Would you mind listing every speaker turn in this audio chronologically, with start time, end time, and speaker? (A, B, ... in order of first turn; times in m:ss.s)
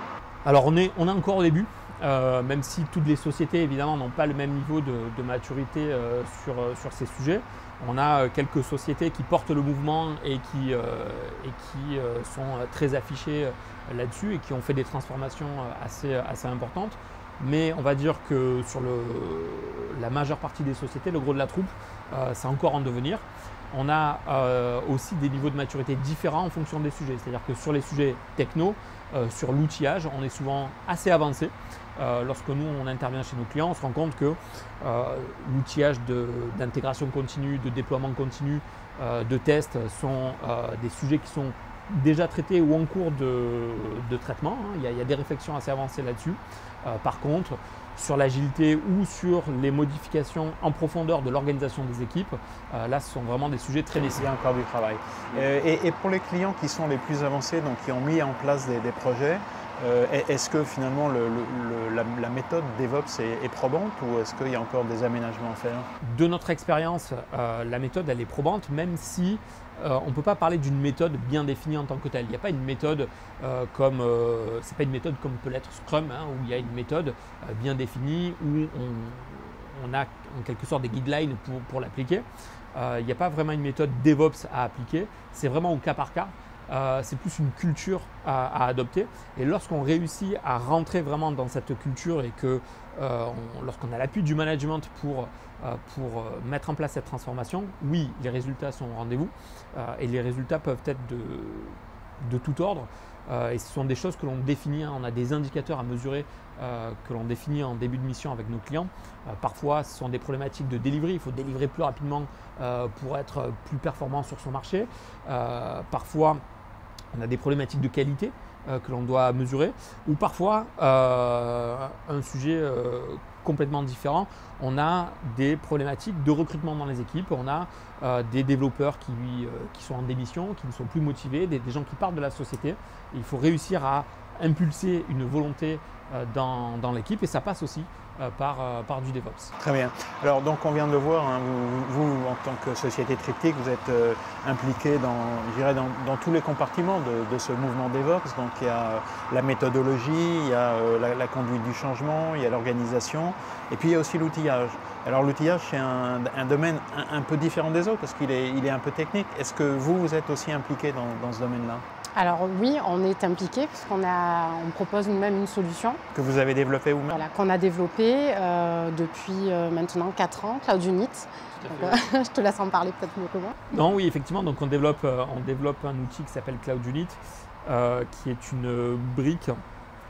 0:00.4-0:54.3 A
0:54.2-1:05.9 B
1:06.0-1:56.4 A
1:57.1-2:19.5 A
2:19.6-2:41.8 B
2:42.2-2:46.0 C
2:46.1-2:47.2 B
2:47.1-2:53.7 C
2:51.6-2:52.0 A
2:53.7-2:59.6 A